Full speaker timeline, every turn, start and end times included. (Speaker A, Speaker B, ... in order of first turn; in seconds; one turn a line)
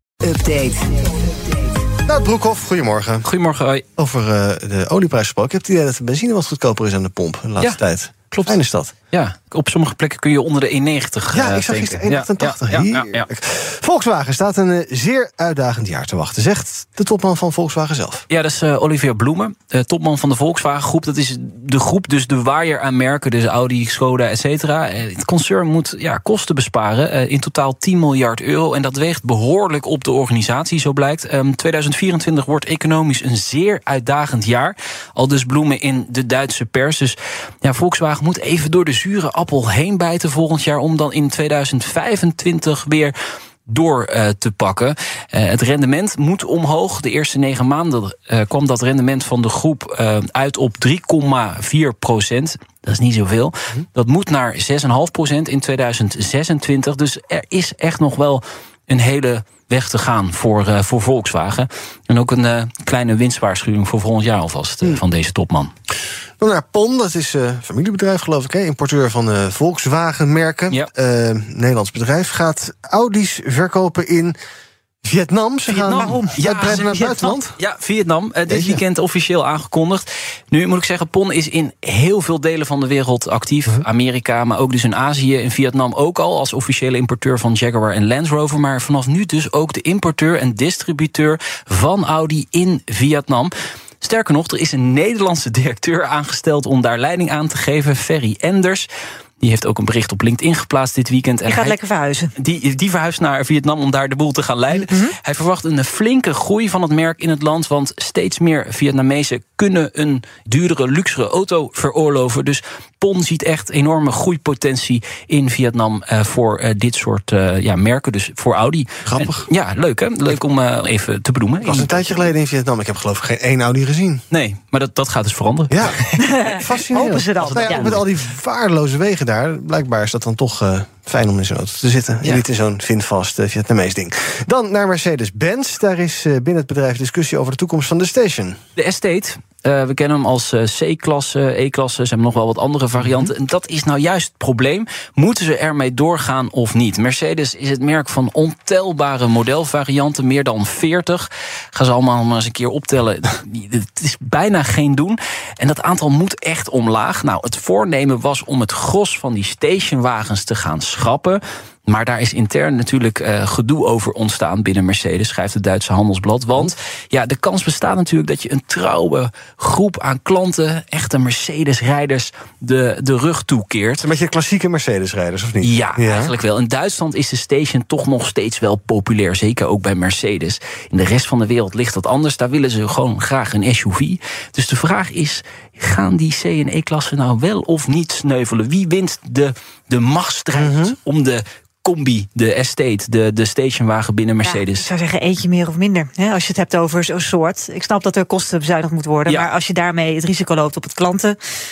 Speaker A: 0.2-1.1
Speaker B: 2.0-3.3
Speaker A: 3.2-3.8
Speaker B: 4.0-8.9
Speaker A: 8.3-8.6
Speaker A: 9.1-13.3
Speaker B: 11.3-18.2
Speaker A: 18.3-43.1
Speaker A: 43.7-65.7
Speaker B: 66.4-74.4
Speaker B: 75.0-77.5
Speaker A: 75.7-98.9
Speaker C: 75.9-76.3
Speaker B: 78.5-78.8
Speaker A: 99.4-101.8
Speaker C: 101.5-102.3
Speaker A: 102.4-122.3
Speaker C: 104.8-105.1
Speaker B: 119.0-119.5
Speaker B: 121.6-124.2
Speaker A: 124.3-126.4
Speaker B: 125.7-138.6
Speaker C: 126.2-128.0
Speaker A: 127.4-128.0
Speaker A: 138.8-174.1
Speaker B: 174.0-176.3
Speaker A: 175.6-194.9
Speaker B: 190.6-191.0
Speaker C: 194.4-201.4
Speaker A: 199.3-199.5